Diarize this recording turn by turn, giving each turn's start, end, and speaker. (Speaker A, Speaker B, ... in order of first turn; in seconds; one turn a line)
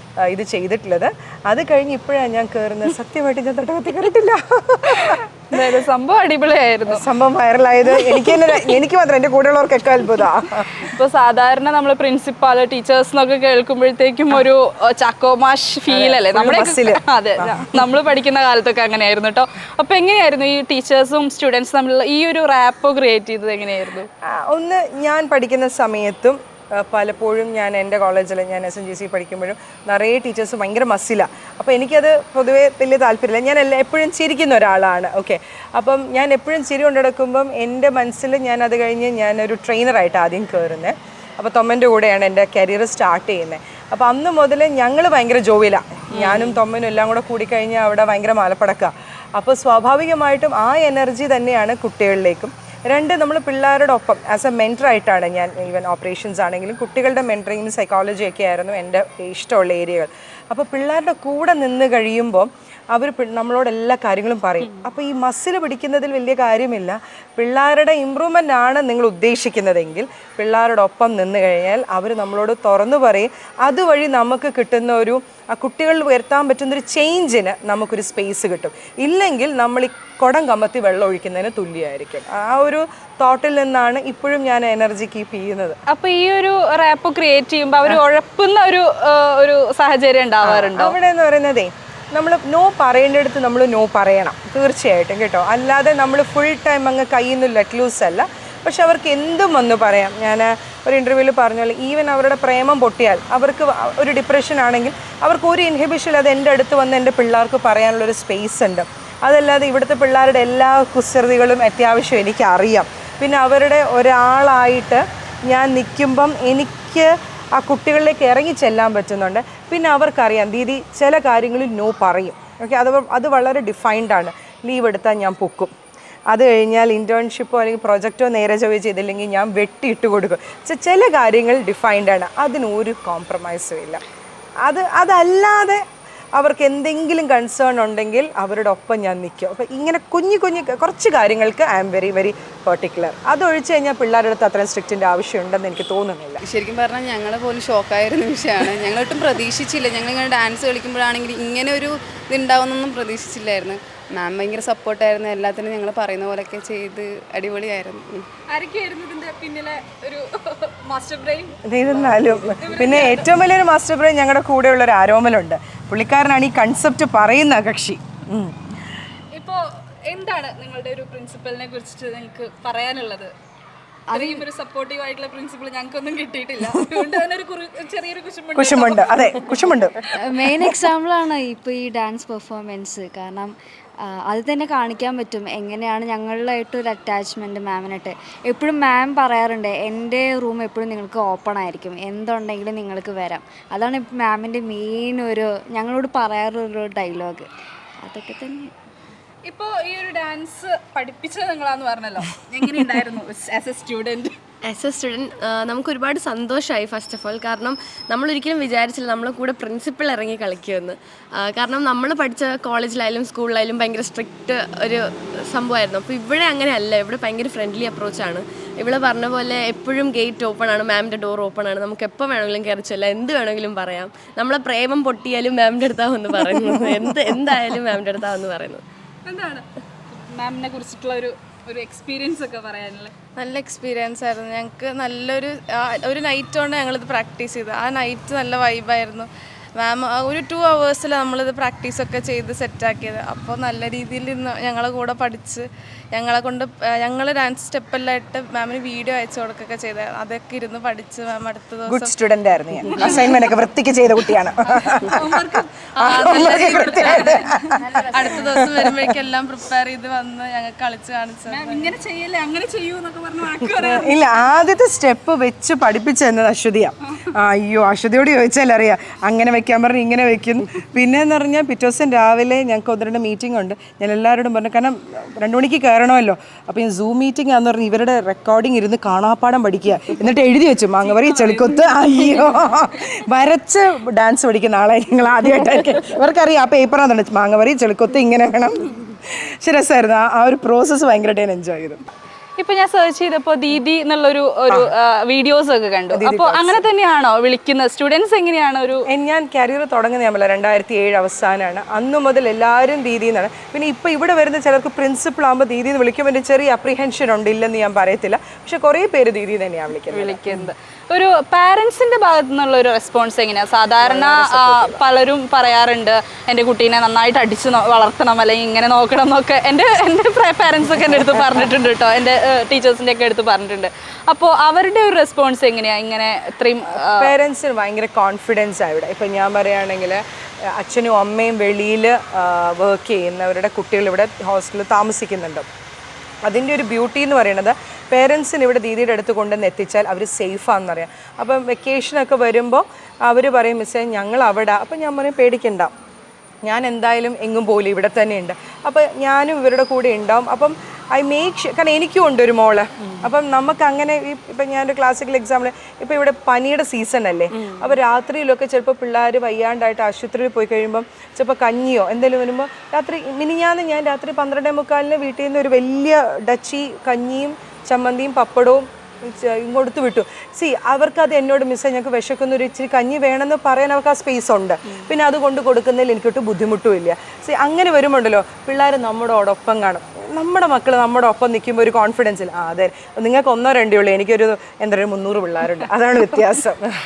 Speaker A: 0.2-5.6
Speaker B: 4.8-7.0
Speaker A: 6.9-10.9
Speaker B: 7.9-8.8
Speaker B: 10.7-24.1
Speaker A: 15.9-17.8
Speaker A: 24.2-85.8
Speaker B: 46.2-46.5
Speaker B: 85.9-91.0
Speaker A: 90.4-125.7
Speaker A: 126.3-134.0
Speaker A: 134.6-135.8
Speaker A: 136.4-146.4
Speaker C: 146.9-151.0
Speaker C: 154.2-158.2
Speaker B: 158.5-163.3
Speaker A: 161.7-168.6
Speaker B: 169.3-173.3
Speaker D: 174.1-174.4
Speaker B: 174.1-180.2
Speaker A: 178.6-180.0
Speaker D: 180.2-183.5
Speaker D: 184.0-197.5
Speaker D: 198.0-198.7
Speaker B: 199.5-204.4
Speaker E: 204.6-228.8
Speaker B: 229.3-233.1
Speaker F: 233.4-239.3
Speaker F: 239.8-252.2
Speaker A: 251.9-255.4
Speaker B: 252.9-253.3
Speaker B: 254.6-258.7
Speaker F: 256.0-257.4
Speaker A: 256.0-259.1
Speaker F: 257.9-261.9
Speaker B: 261.5-264.1
Speaker A: 263.8-292.0
Speaker B: 281.0-282.7
Speaker B: 292.6-299.0
Speaker A: 296.1-296.8
Speaker A: 299.1-310.7
Speaker B: 310.1-327.3
Speaker A: 314.0-315.0
Speaker A: 327.1-335.7
Speaker A: 336.5-345.9
Speaker A: 346.6-386.9
Speaker B: 357.6-357.8